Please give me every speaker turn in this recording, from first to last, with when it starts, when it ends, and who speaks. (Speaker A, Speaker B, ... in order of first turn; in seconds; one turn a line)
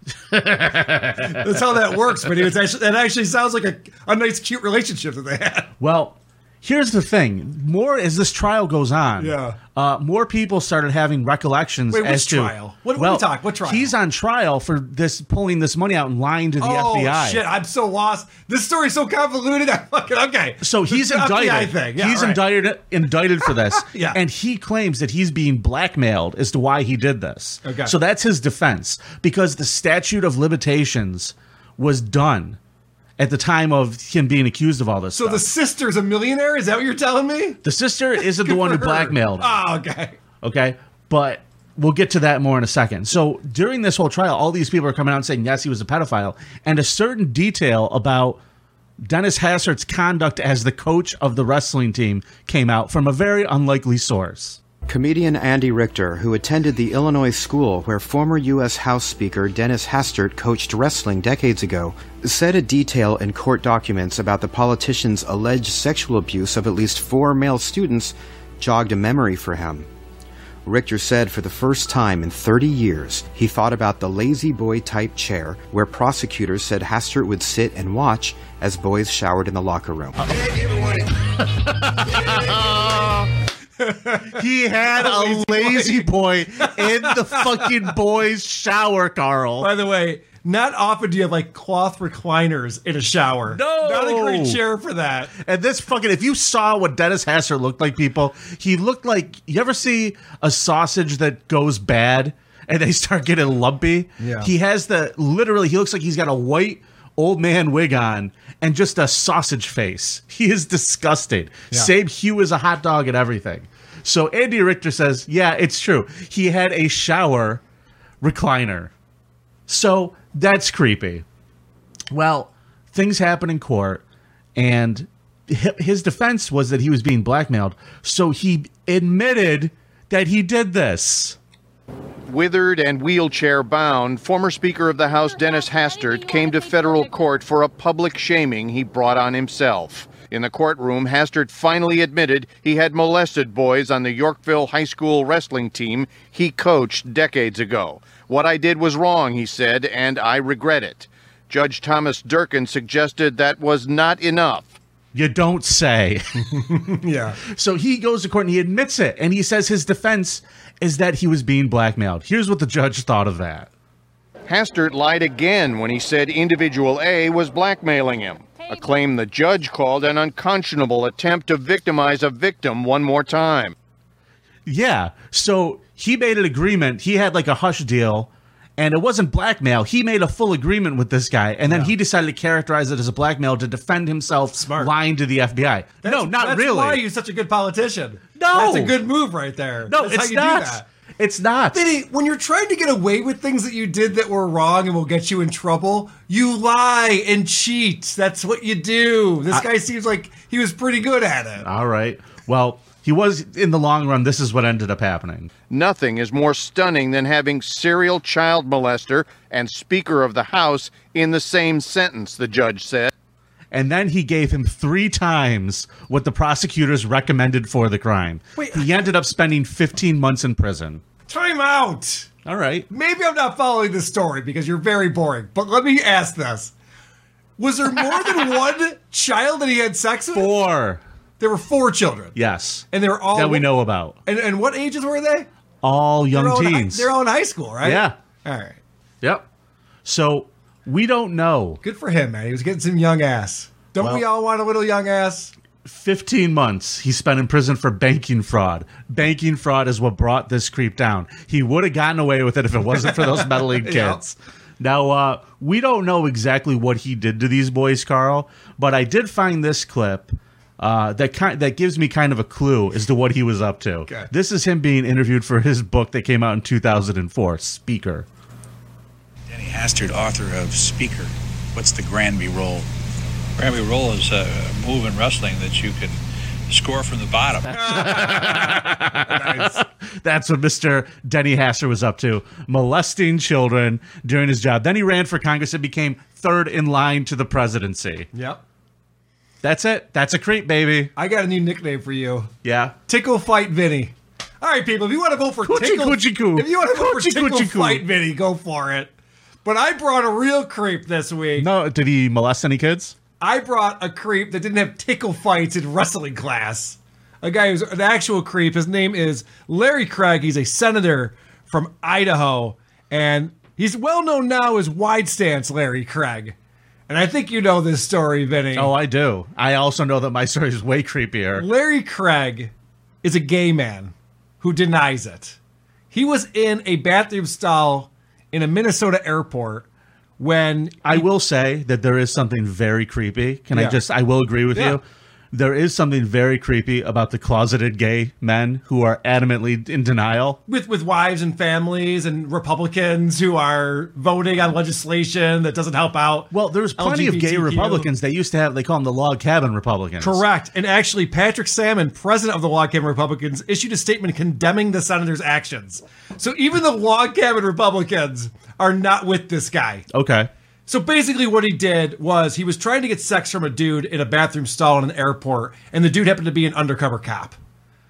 Speaker A: 0.3-1.4
Speaker B: 1.0-5.7
Speaker A: 5.8-17.4
Speaker B: 9.2-9.6
Speaker B: 11.9-13.9
Speaker B: 16.6-22.4
Speaker A: 20.6-32.6
Speaker B: 23.7-24.2
Speaker B: 27.6-27.9
Speaker A: 33.2-35.4
Speaker B: 35.1-37.6
Speaker A: 37.6-39.6
Speaker B: 38.2-40.2
Speaker A: 40.4-48.4
Speaker A: 49.0-54.6
Speaker C: 54.9-69.9
Speaker C: 70.6-80.2
Speaker A: 81.9-83.3
Speaker B: 83.8-84.3
Speaker A: 84.3-89.7
Speaker B: 84.9-86.1
Speaker B: 86.6-87.7
Speaker B: 89.6-95.3
Speaker A: 93.5-94.6
Speaker A: 95.4-117.6
Speaker B: 104.2-104.5
Speaker A: 118.2-118.9
Speaker A: 119.7-121.2
Speaker A: 122.1-124.0
Speaker A: 124.5-131.4
Speaker D: 132.3-154.7
Speaker A: 155.1-156.4
Speaker B: 156.5-157.4
Speaker A: 157.5-163.7
Speaker D: 164.5-173.7
Speaker A: 174.7-187.0
Speaker B: 181.6-181.9
Speaker B: 184.6-184.9
Speaker B: 186.0-190.8
Speaker A: 188.3-189.0
Speaker A: 189.9-191.8
Speaker B: 191.7-201.7
Speaker A: 201.6-205.5
Speaker D: 205.7-213.1
Speaker A: 213.7-221.0
Speaker B: 218.6-218.8
Speaker B: 221.3-222.3
Speaker A: 222.4-222.9
Speaker B: 222.9-226.7
Speaker B: 227.6-230.6
Speaker A: 230.3-231.0
Speaker B: 231.4-232.3
Speaker A: 232.3-234.2
Speaker B: 232.9-233.7
Speaker B: 234.2-235.5
Speaker A: 235.8-237.1
Speaker B: 236.3-238.8
Speaker A: 237.8-238.1
Speaker A: 240.0-241.8
Speaker B: 241.8-245.5
Speaker A: 244.0-244.2
Speaker A: 245.8-254.2
Speaker B: 252.9-254.3
Speaker A: 254.8-268.2
Speaker E: 269.5-272.9
Speaker E: 273.6-277.8
Speaker B: 277.7-279.8
Speaker A: 277.7-288.3
Speaker B: 288.3-288.6
Speaker A: 289.6-291.1
Speaker B: 291.1-292.5
Speaker A: 292.6-292.9
Speaker B: 293.1-299.1
Speaker A: 295.6-298.0
Speaker B: 299.6-301.7
Speaker A: 301.6-303.1
Speaker B: 303.4-316.5
Speaker B: 317.1-318.9
Speaker A: 318.7-321.6
Speaker B: 321.6-322.7
Speaker B: 323.2-325.6
Speaker B: 326.1-329.9
Speaker B: 330.4-331.3
Speaker A: 331.0-340.6
Speaker B: 333.7-334.0
Speaker B: 334.7-335.0
Speaker B: 340.7-348.1
Speaker A: 346.5-350.4
Speaker B: 350.2-360.0
Speaker A: 360.1-360.5
Speaker B: 360.9-367.6